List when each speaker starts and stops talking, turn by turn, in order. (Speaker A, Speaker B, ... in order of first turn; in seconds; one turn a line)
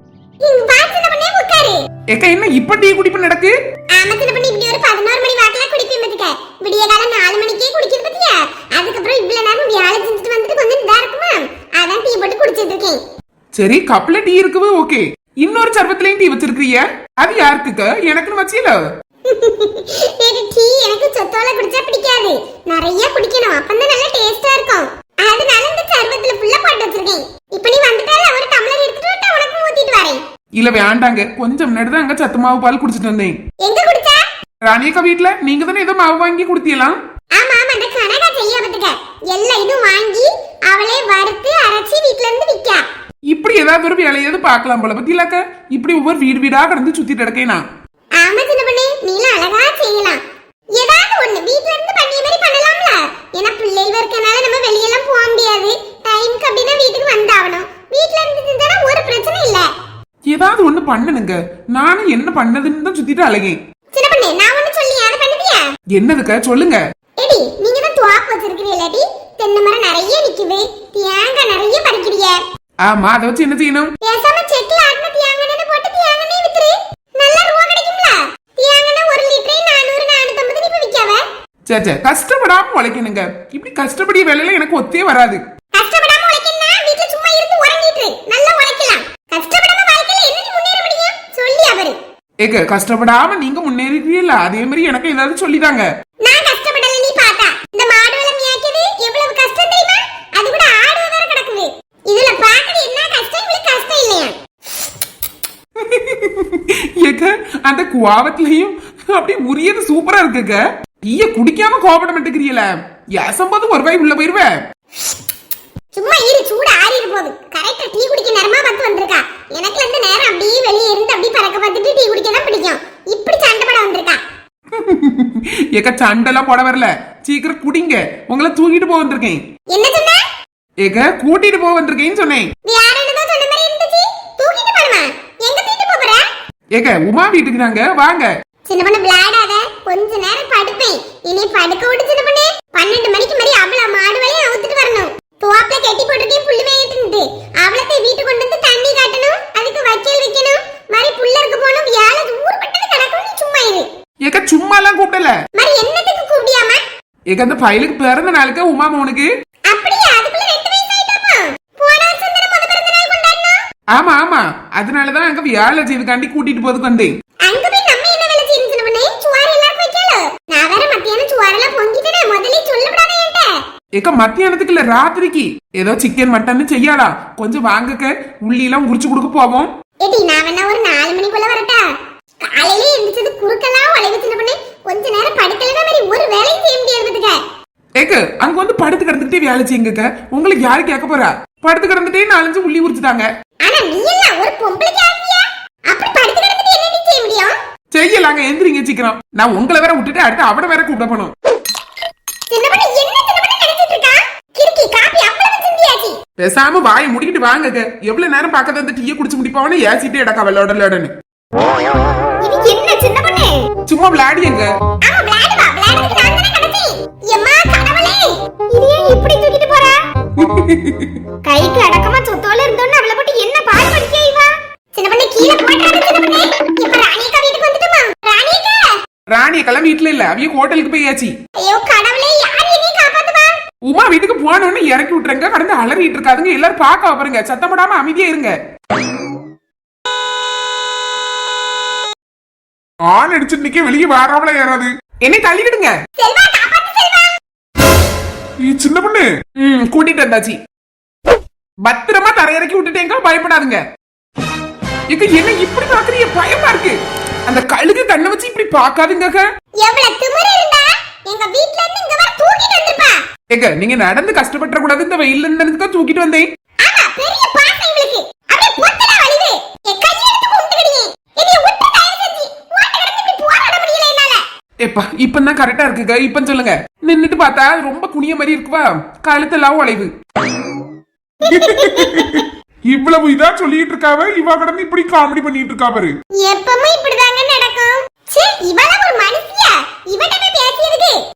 Speaker A: 0.4-1.8
Speaker B: 2.1-3.5
Speaker A: 3.9-13.0
Speaker B: 13.6-18.8
Speaker A: 19.3-30.2
Speaker B: 30.6-33.4
Speaker A: 33.6-34.2
Speaker B: 34.6-37.0
Speaker A: 37.4-42.9
Speaker B: 43.3-47.6
Speaker A: 48.2-50.2
Speaker A: 50.8-59.7
Speaker B: 60.3-63.6
Speaker A: 63.9-65.7
Speaker B: 65.9-66.8
Speaker A: 67.2-72.4
Speaker B: 72.8-73.9
Speaker A: 74.0-81.2
Speaker B: 81.7-85.4
Speaker A: 85.7-92.0
Speaker B: 92.4-95.9
Speaker A: 96.2-104.4
Speaker B: 105.8-114.5
Speaker A: 115.9-124.2
Speaker B: 124.7-129.4
Speaker A: 129.7-130.2
Speaker B: 130.8-132.5
Speaker A: 132.6-136.3
Speaker B: 136.7-138.3
Speaker A: 138.7-153.9
Speaker B: 154.2-155.4
Speaker A: 155.6-156.8
Speaker B: 157.3-159.3
Speaker A: 159.7-163.6
Speaker B: 163.9-167.1
Speaker A: 167.4-173.6
Speaker B: 174.0-179.7
Speaker A: 180.0-181.9
Speaker A: 182.4-187.4
Speaker B: 188.0-193.3
Speaker A: 193.6-197.6
Speaker B: 197.9-201.3
Speaker A: 202.5-206.2
Speaker B: 206.4-211.1
Speaker A: 212.4-213.7
Speaker B: 213.9-214.7
Speaker A: 215.0-220.0
Speaker B: 220.4-221.1
Speaker A: 221.4-228.9
Speaker B: 229.3-231.3
Speaker A: 231.6-233.5
Speaker B: 233.8-238.6
Speaker B: 243.1-245.9
Speaker A: 246.2-247.3
Speaker B: 248.7-250.6
Speaker B: 251.8-253.8
Speaker B: 255.1-259.5
Speaker A: 259.8-263.2
Speaker B: 263.5-266.5
Speaker A: 266.8-274.4
Speaker B: 274.8-280.1
Speaker A: 281.5-282.4
Speaker B: 282.0-286.1
Speaker A: 286.4-291.2